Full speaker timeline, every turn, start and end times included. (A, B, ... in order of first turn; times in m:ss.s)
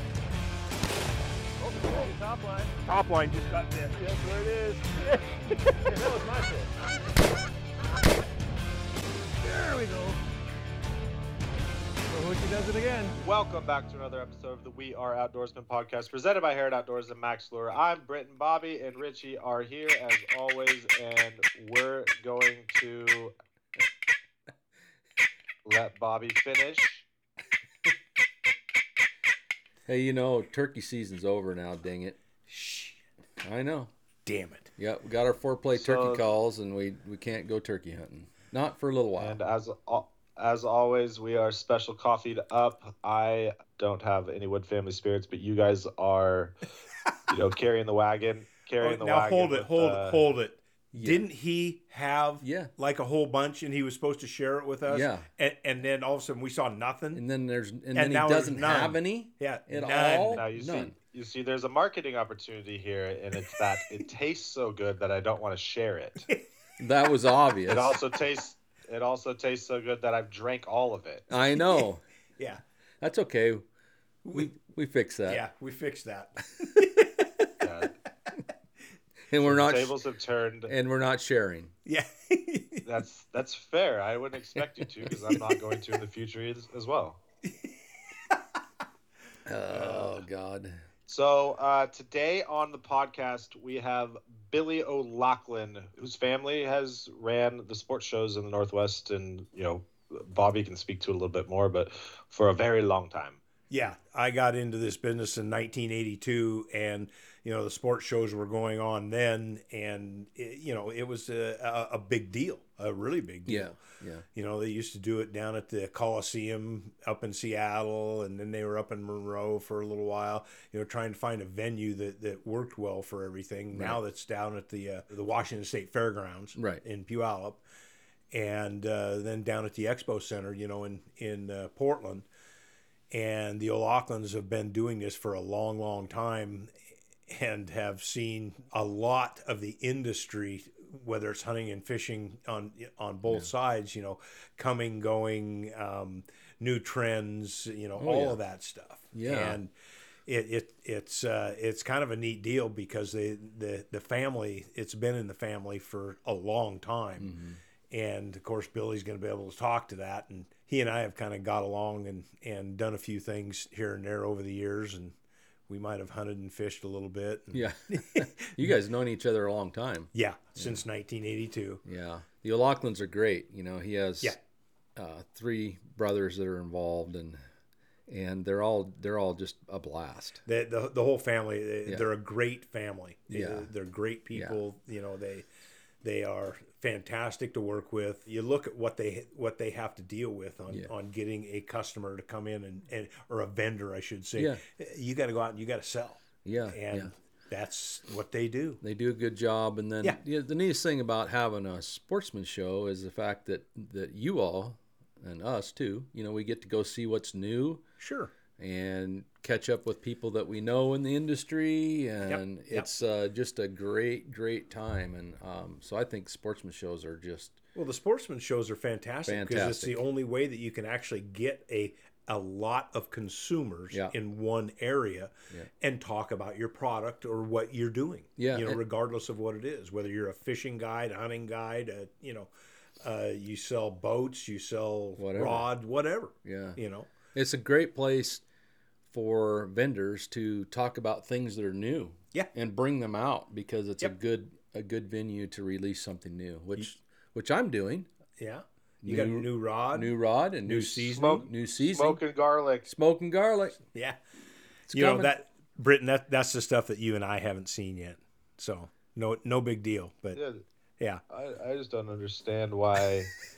0:01.6-0:05.1 A
0:03.0-0:03.7 B
0:05.8-0:06.7 A
0:09.4-0:10.2 A
0:12.0-0:13.1 A
0:13.1-0:23.3 C
0:25.6-0:27.0 C
0:29.9-0:32.2 D
0:32.5-0:33.0 B
0:33.4-0:33.9 D
0:34.2-0:34.7 B
0:34.8-0:39.4 D
0:35.7-0:36.3 C
0:39.2-0:46.5 C
0:47.3-0:50.2 C
0:48.8-0:57.2 B
0:50.9-0:51.2 D
0:52.4-0:52.7 D
0:54.9-0:55.3 D
0:57.1-1:01.0 D
0:57.9-1:00.4 B
1:00.3-1:06.3 C
1:06.8-1:08.0 D
1:07.7-1:11.2 C
1:11.3-1:12.0 D
1:13.0-1:13.6 D
1:14.3-1:15.4 D
1:15.3-1:16.8 B
1:16.6-1:17.4 D
1:17.6-1:17.9 C
1:19.3-1:20.0 D
1:19.4-1:20.7 C
1:20.7-1:21.7 D
1:21.8-1:22.8 B
1:22.8-1:27.2 C
1:29.4-1:30.8 D
1:31.1-1:43.4 C
1:43.7-1:53.8 B
1:53.4-1:54.2 D
1:54.3-2:07.6 B
2:03.7-2:04.0 D
2:06.6-2:06.8 D
2:08.3-2:12.3 B
2:13.1-2:16.7 B
2:17.3-2:29.7 B
2:28.0-2:28.4 D
2:29.1-2:29.6 D
2:30.2-2:37.3 B
2:37.2-2:37.6 D
2:37.9-2:45.2 B
2:45.7-2:48.7 B
2:47.5-2:50.8 D
2:50.1-2:51.8 B
2:51.8-2:54.4 D
2:55.0-2:57.4 D
2:58.1-3:00.4 D
3:00.4-3:05.5 B
3:03.3-3:03.7 D
3:04.3-3:04.6 D
3:06.0-3:18.8 B
3:16.4-3:17.1 D
3:18.8-3:27.8 D
3:28.0-3:28.3 B
3:28.6-3:37.6 D
3:32.2-3:32.8 B
3:37.7-3:57.1 B
3:39.2-3:40.0 D
3:48.4-3:48.8 D
3:55.2-3:55.7 D
3:56.4-3:56.8 D
3:57.3-3:58.4 D
3:59.1-4:08.1 D
4:08.4-4:10.1 B
4:09.0-4:12.2 D
4:10.6-4:11.4 B
4:11.1-4:12.8 C
4:12.8-4:13.8 D
4:13.9-4:14.2 B
4:14.9-4:15.3 D
4:14.9-4:20.4 B
4:20.3-4:20.6 C
4:21.3-4:23.3 C